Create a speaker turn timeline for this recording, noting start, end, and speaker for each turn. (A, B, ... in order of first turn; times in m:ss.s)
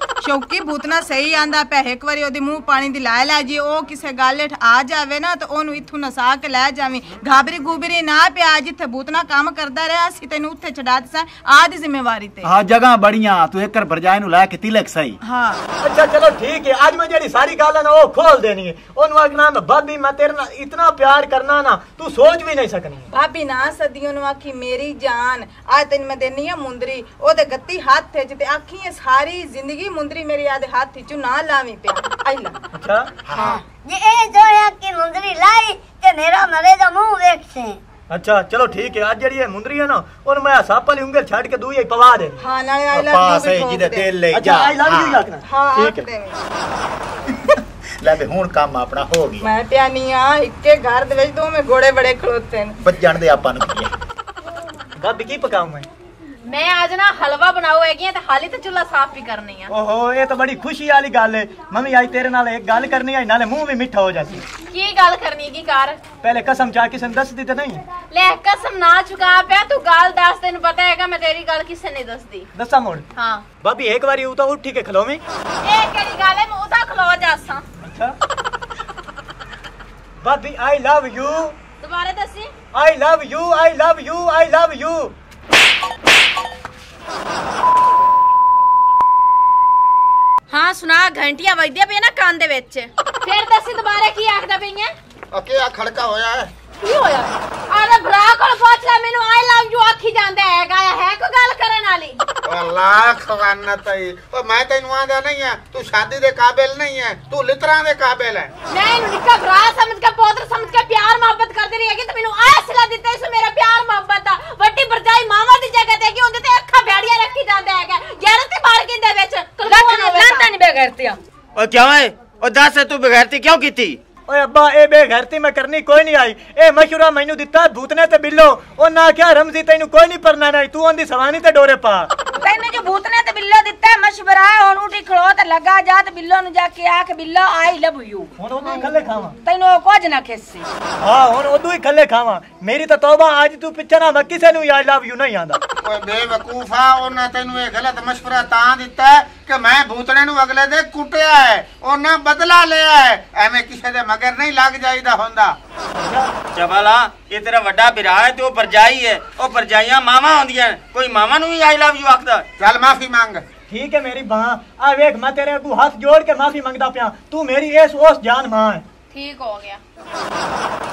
0:00.2-0:12.5 A
0:12.4-0:15.2 B
0:15.2-0:15.6 A
0:15.8-0:23.1 C
0:23.1-0:32.6 A
0:32.7-0:33.1 C
0:33.3-0:33.6 B
0:33.3-0:37.8 D
0:33.3-0:33.6 A
0:38.1-0:42.4 C
0:42.4-0:44.1 A
0:42.9-0:45.2 B
0:44.3-0:46.0 C
0:45.4-0:46.4 A
0:48.0-0:49.4 B
0:49.4-0:52.8 A
0:52.8-0:53.9 B
0:55.0-0:55.9 C
0:56.5-0:59.7 E
0:59.7-1:04.4 C
1:04.7-1:06.0 E
1:06.2-1:07.8 C
1:08.1-1:12.5 E
1:12.5-1:13.0 C
1:13.2-1:13.4 E
1:13.6-1:15.2 C
1:15.6-1:17.6 E
1:17.8-1:18.1 C
1:20.2-1:21.6 C
1:21.8-1:22.5 E
1:22.7-1:25.1 C
1:30.5-1:34.9 E
1:35.3-1:36.5 F
1:36.8-1:42.2 E
1:42.4-1:48.5 F
1:48.7-2:00.5 E
1:59.6-2:01.2 G
2:01.6-2:04.0 H
2:04.3-2:12.1 C
2:12.4-2:18.3 G
2:18.4-2:19.3 C
2:19.4-2:20.7 G
2:21.0-2:25.6 C
2:25.8-2:35.5 F
2:35.9-2:36.3 C
2:36.5-2:42.4 H
2:42.6-2:43.4 F
2:43.7-2:48.8 C
2:49.1-2:49.8 E